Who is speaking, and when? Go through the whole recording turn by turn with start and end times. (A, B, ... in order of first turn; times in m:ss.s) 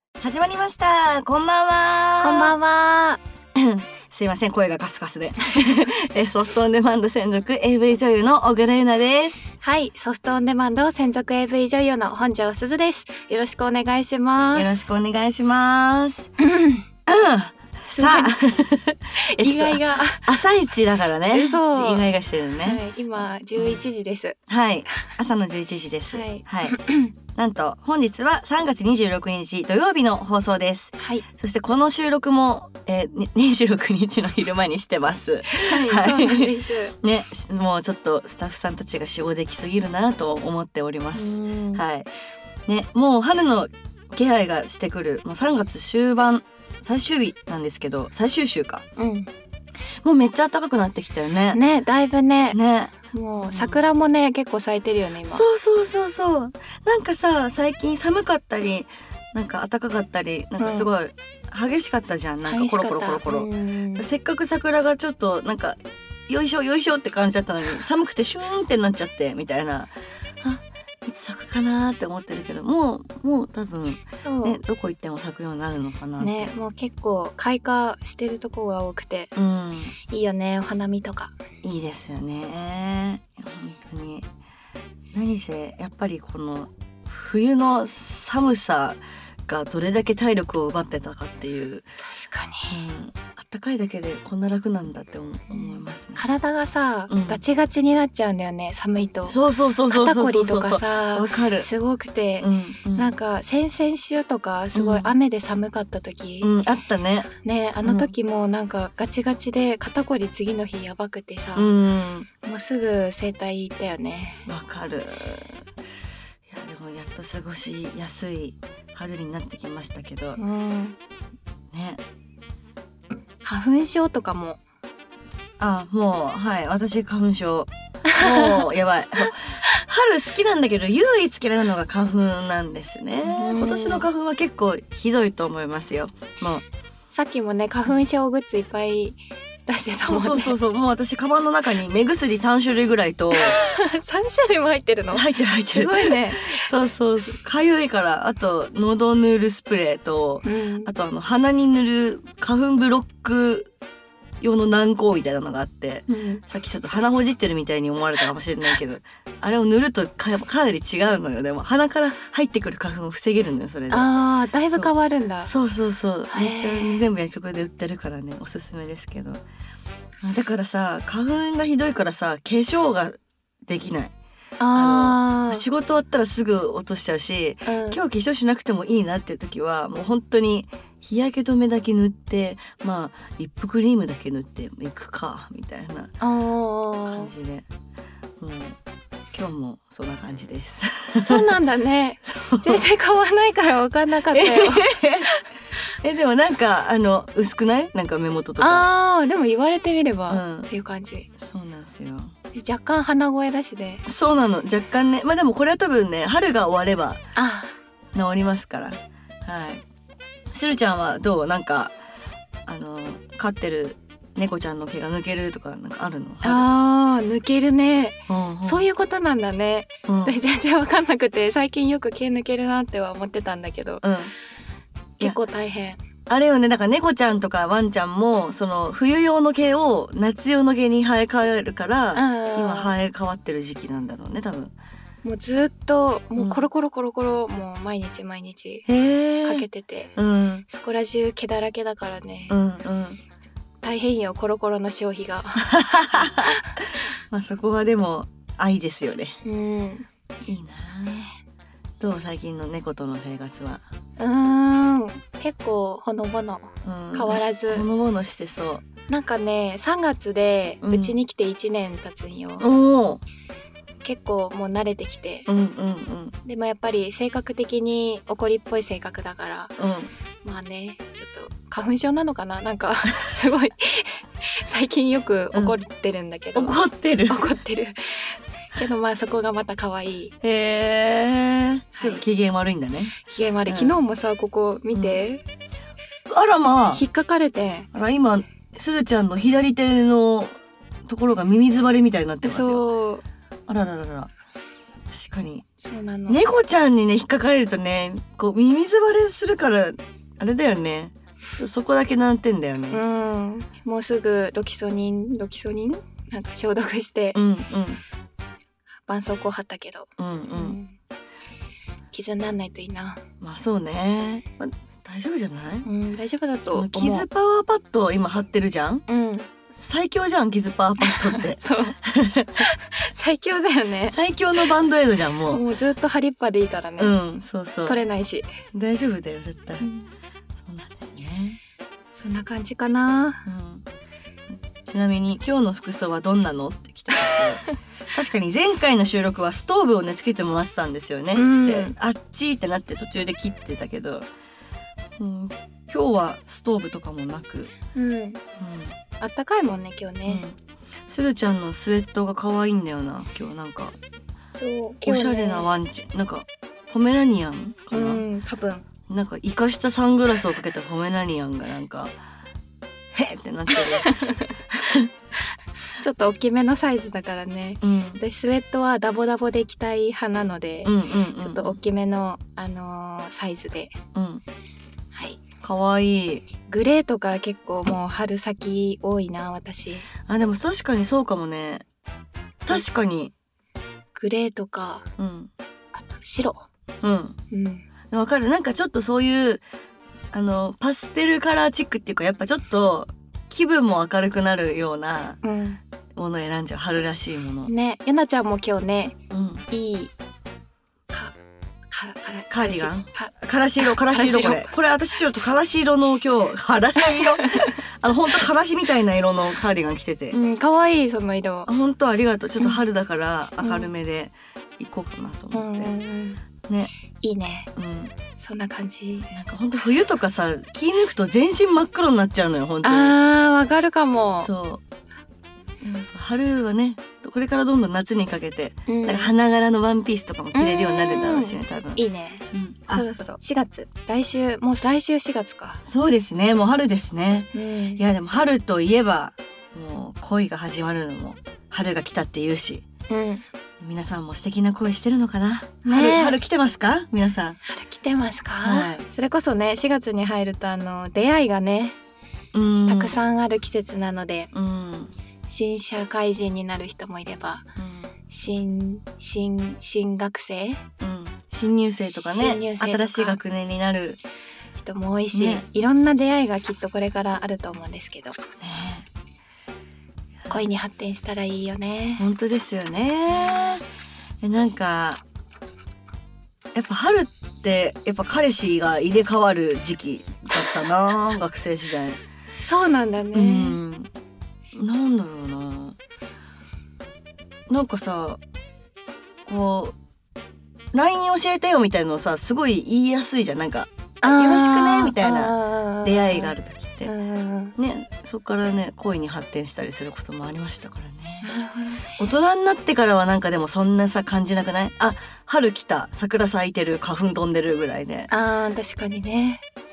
0:00.2-0:02.6 A
0:02.2-0:03.2 B
0:03.5-0:09.4 A
0:09.6-0:14.7 B
0:14.5-0:16.3 A
0:16.4-0:16.9 B
0:17.1-0:23.8 A
0:17.9-0:18.6 B
0:19.4-0:20.4 B
0:21.3-0:22.1 B
0:22.6-0:24.4 B
0:24.5-0:42.1 A
0:26.1-0:27.1 B
0:31.0-0:31.2 B
0:35.5-0:36.9 B
0:41.1-0:41.8 B
0:42.7-0:48.8 A
0:49.0-0:49.3 B
0:50.0-0:51.6 A
0:51.5-0:52.6 B
0:52.5-0:53.8 A
0:53.1-0:55.4 B
0:55.2-1:05.8 A
1:00.6-1:00.9 B
1:02.4-1:04.1 B
1:06.3-1:16.5 A
1:14.2-1:14.6 B
1:16.2-1:19.3 B
1:19.3-1:20.0 A
1:20.0-1:21.3 B
1:21.6-1:24.3 A
1:25.1-1:31.9 A
1:32.1-1:32.8 B
1:32.7-1:36.2 A
1:35.5-1:46.5 B
1:37.1-1:37.4 A
1:39.3-1:41.7 A
1:42.4-1:43.1 A
1:44.8-1:45.1 A
1:46.4-1:47.3 A
1:47.3-1:51.7 B
1:47.8-1:48.1 A
1:51.6-1:52.3 A
1:52.4-1:54.4 B
1:54.4-1:55.6 A
1:56.5-2:00.4 A
2:00.4-2:01.0 B
2:01.7-2:02.0 A
2:03.4-2:04.6 B
2:05.6-2:16.6 A
2:08.1-2:08.6 B
2:13.2-2:14.1 B
2:17.1-2:20.6 B
2:20.0-2:23.6 A
2:23.3-2:26.6 B
2:25.1-2:33.7 A
2:30.4-2:30.9 B
2:34.4-2:44.1 A
2:36.1-2:36.4 B
2:43.9-2:45.5 B
2:44.7-2:49.4 A
2:46.3-2:47.0 B
2:50.2-2:54.1 A
2:54.6-2:55.6 B
2:54.7-3:06.1 A
2:57.7-2:58.0 B
3:06.2-3:07.3 B
3:07.1-3:07.7 A
3:08.4-3:08.8 A
3:09.3-3:11.5 A
3:11.2-3:15.4 B
3:12.2-3:12.8 A
3:14.3-3:15.3 A
3:16.0-3:18.8 A
3:18.6-3:21.3 B
3:20.3-3:20.7 A
3:21.4-3:22.3 A
3:22.5-3:24.0 B
3:24.1-3:27.2 A
3:27.4-3:27.8 B
3:28.1-3:29.8 A
3:30.5-3:31.9 A
3:32.7-3:36.7 A
3:36.4-3:44.0 B
3:38.3-3:38.9 A
3:40.1-3:40.4 A
3:44.0-3:44.3 A
3:45.2-3:46.0 B
3:46.3-3:54.7 A
3:52.2-3:52.9 B
3:55.2-3:58.9 B
3:56.4-3:56.7 A
3:58.9-4:00.6 A
3:59.4-4:00.1 B
4:00.7-4:02.6 B
4:02.5-4:03.2 A
4:03.8-4:06.8 B
4:05.7-4:06.5 A
4:07.3-4:09.4 A
4:09.4-4:10.1 B
4:10.4-4:11.3 A
4:12.0-4:13.8 A
4:14.2-4:17.8 B
4:16.8-4:18.8 A
4:19.1-4:22.6 B
4:20.8-4:21.2 A
4:22.6-4:23.2 A
4:24.0-4:25.5 B
4:25.5-4:26.4 A
4:26.4-4:29.8 B
4:29.8-4:30.1 A
4:30.4-4:40.3 B
4:36.5-4:37.4 A
4:40.4-4:43.2 A
4:42.0-4:42.2 B
4:43.2-4:45.4 B
4:43.7-4:44.0 A
4:44.9-4:45.2 A
4:46.3-4:47.0 A
4:46.9-4:47.9 B
4:47.9-4:52.8 A
4:52.4-4:53.2 B
4:53.7-4:54.3 A
4:55.1-4:55.6 A
4:55.8-4:56.4 B
4:56.3-5:03.0 A
5:02.9-5:07.4 B
5:07.3-5:08.0 A
5:09.1-5:11.0 B
5:10.2-5:10.8 A
5:12.1-5:13.2 B
5:13.4-5:15.9 A
5:15.8-5:17.3 B
5:16.7-5:19.0 A
5:19.1-5:19.5 B
5:19.7-5:22.6 A
5:21.0-5:22.0 B
5:22.6-5:24.2 B
5:24.1-5:25.6 A
5:25.5-5:27.2 B
5:27.0-5:28.0 A
5:27.8-5:28.5 B
5:28.7-5:29.8 A
5:29.8-5:30.1 B
5:30.6-5:31.6 A
5:32.1-5:33.4 B
5:33.4-5:33.8 A
5:34.5-5:44.3 A
5:41.3-5:41.9 B
5:45.2-5:47.7 A
5:47.9-5:48.4 B
5:48.6-5:49.0 A
5:49.2-5:50.4 B
5:50.3-5:54.0 A
5:54.5-5:55.7 B
5:55.0-5:58.2 A
5:57.9-5:58.8 B
5:59.1-6:02.1 A
6:03.1-6:05.1 A
6:06.0-6:14.0 B
6:07.8-6:08.2 A
6:10.8-6:11.8 A
6:14.1-6:14.4 A
6:15.1-6:15.4 B
6:15.6-6:16.4 A
6:16.7-6:20.1 B
6:20.2-6:21.8 A
6:22.6-6:23.3 A
6:24.1-6:25.0 B
6:25.2-6:25.5 A
6:26.0-6:26.6 B
6:27.0-6:27.4 A
6:27.5-6:27.8 B
6:28.1-6:29.6 A
6:30.3-6:35.4 A
6:35.4-6:35.8 B
6:36.1-6:37.7 A
6:37.6-6:39.2 B
6:39.3-6:39.6 A
6:39.7-6:40.1 B
6:41.1-6:41.3 B
6:41.9-6:44.7 B
6:42.5-6:50.4 A
6:47.0-6:47.7 B
6:50.3-6:51.7 B
6:51.7-6:55.9 A
6:53.6-6:53.9 B
6:55.5-6:56.4 B
6:56.7-6:56.9 A
6:57.2-6:57.7 B
6:57.8-6:58.1 A
6:58.4-6:59.3 B
6:59.3-7:03.2 A
7:02.8-7:04.5 B
7:04.4-7:04.8 A
7:06.0-7:13.0 A
7:08.9-7:09.3 B
7:10.5-7:15.8 B
7:15.8-7:22.8 A
7:17.5-7:18.0 B
7:23.1-7:23.4 B
7:23.8-7:27.6 A
7:25.8-7:26.4 B
7:27.6-7:32.0 B
7:28.6-7:29.0 A
7:32.5-7:33.2 A
7:32.8-7:34.5 B
7:34.5-7:35.1 A
7:35.5-7:37.7 B
7:37.8-7:38.1 A
7:38.3-7:40.8 B
7:41.0-7:44.2 A
7:42.0-7:43.4 B
7:44.8-7:48.4 B
7:45.3-7:45.6 A
7:48.6-7:49.1 A
7:50.5-7:52.2 B
7:52.2-7:53.8 A
7:54.4-7:55.2 A
7:56.7-8:02.2 A
8:02.6-8:03.8 B
8:03.3-8:04.1 A
8:04.7-8:06.0 A
8:07.7-8:08.4 A
8:09.4-8:10.0 A
8:10.9-8:17.1 A
8:14.2-8:16.5 B
8:17.0-8:17.7 B
8:17.8-8:21.5 A
8:21.4-8:22.2 B
8:22.2-8:28.3 A
8:28.3-8:29.6 B